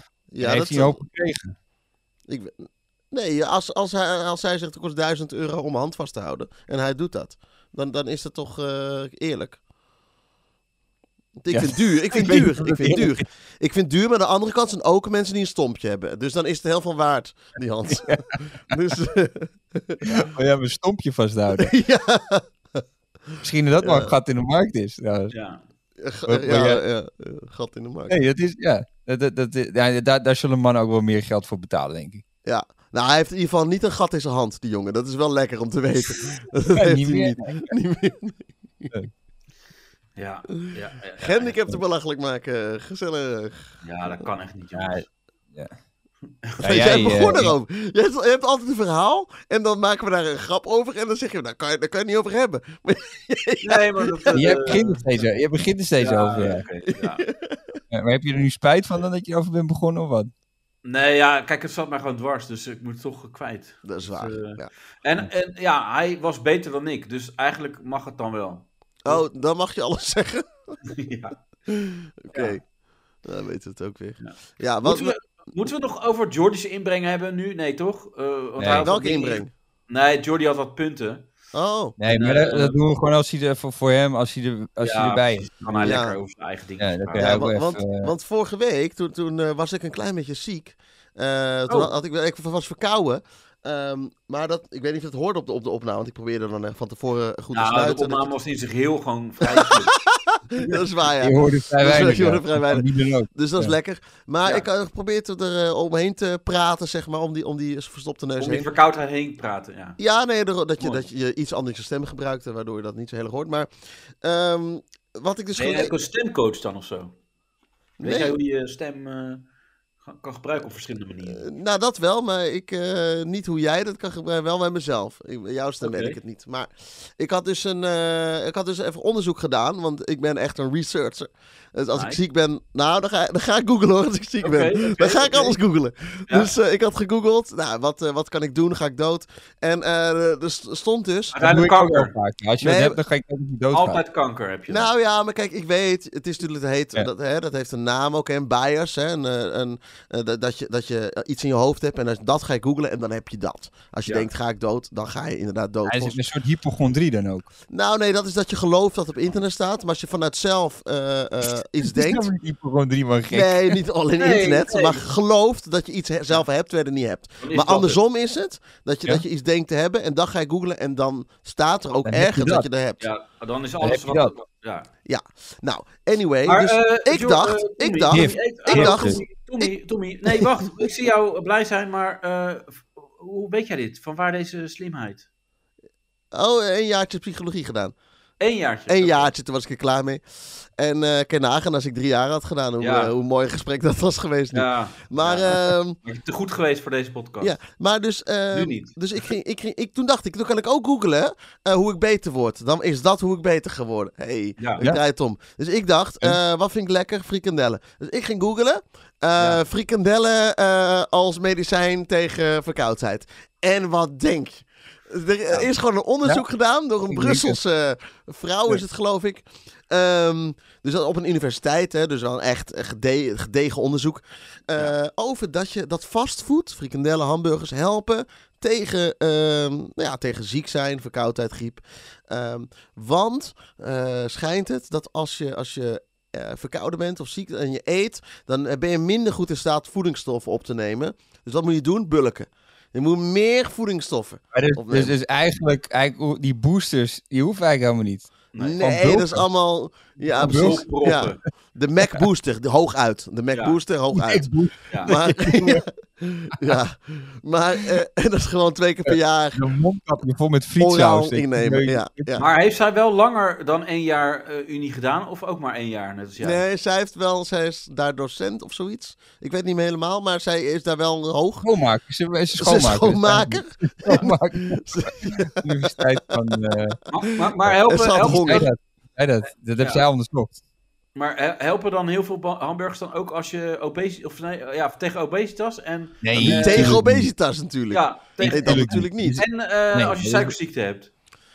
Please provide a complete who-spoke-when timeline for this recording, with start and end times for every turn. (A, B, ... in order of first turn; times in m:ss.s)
0:00.3-0:01.0 A
0:00.4-0:01.6 B
0:02.3-0:09.6 A
0:11.4-0:20.3 A
0:11.5-0:13.2 B
0:17.9-0:18.8 B
0:20.0-0:21.7 B
0:21.6-0:22.5 A
0:23.4-0:25.3 B
0:23.8-0:24.1 A
0:25.3-0:25.6 C
0:26.0-0:28.2 A
0:26.3-0:26.8 B
0:28.1-0:32.2 B
0:32.4-0:38.9 A
0:36.7-0:37.7 B
0:40.2-0:41.6 C
0:41.2-0:43.7 A
0:43.8-0:45.0 C
0:44.7-0:45.7 B
0:46.6-0:54.7 A
0:46.6-0:47.5 B
0:53.6-0:55.0 C
0:54.3-0:56.6 B
0:56.0-0:57.2 C
0:56.9-0:57.8 A
0:57.9-1:00.3 B
1:00.8-1:09.2 C
1:03.8-1:04.7 A
1:09.0-1:10.4 A
1:10.9-1:11.4 C
1:11.7-1:12.6 A
1:13.2-1:15.1 A
1:14.2-1:21.3 C
1:18.6-1:18.9 B
1:18.8-1:19.5 A
1:21.5-1:22.0 A
1:22.0-1:26.0 B
1:22.1-1:22.8 C
1:24.8-1:27.3 C
1:25.8-1:26.2 A
1:26.8-1:28.1 B
1:27.2-1:38.3 A
1:37.5-1:39.9 C
1:39.4-1:48.7 A
1:40.5-1:40.8 C
1:41.2-1:43.7 B
1:48.4-1:50.0 C
1:50.0-1:53.7 A
1:54.2-1:55.9 A
1:55.6-1:57.1 C
1:58.0-1:58.3 A
1:58.0-1:59.4 C
2:00.0-2:01.4 C
2:01.3-2:21.4 A
2:05.8-2:06.2 C
2:11.9-2:12.2 C
2:14.4-2:15.6 C
2:21.3-2:22.1 C
2:21.4-2:24.0 B
2:22.6-2:23.0 A
2:23.7-2:24.9 C
2:24.7-2:36.2 A
2:35.9-2:37.5 B
2:37.7-2:42.3 A
2:41.8-2:43.8 B
2:43.3-2:53.0 A
2:44.2-2:45.0 C
2:47.4-2:48.0 C
2:52.0-2:52.7 B
2:53.0-2:54.9 C
2:53.8-2:54.3 B
2:55.0-2:59.2 A
2:56.5-3:05.3 C
2:58.1-2:59.2 B
3:06.3-3:07.9 A
3:08.4-3:09.3 C
3:08.9-3:10.2 A
3:10.8-3:16.0 A
3:12.8-3:13.1 C
3:14.5-3:17.5 C
3:17.4-4:05.1 A
3:18.5-3:18.9 C
3:24.6-3:24.8 C
3:37.1-3:37.6 B
4:04.5-4:09.4 B
4:08.5-4:08.8 C
4:08.6-4:14.5 A
4:10.4-4:10.9 B
4:10.4-4:11.4 C
4:14.1-4:15.8 B
4:15.0-4:19.6 A
4:19.1-4:22.4 B
4:20.8-4:22.5 A
4:22.4-4:26.6 C
4:26.4-4:31.7 A
4:31.6-4:37.0 B
4:32.6-4:36.4 A
4:37.1-4:38.7 C
4:37.6-4:40.5 B
4:37.9-4:38.7 A
4:39.8-4:40.0 C
4:41.1-4:47.0 C
4:46.2-4:47.3 B
4:46.4-4:49.4 A
4:47.9-4:51.1 C
4:48.4-4:50.6 B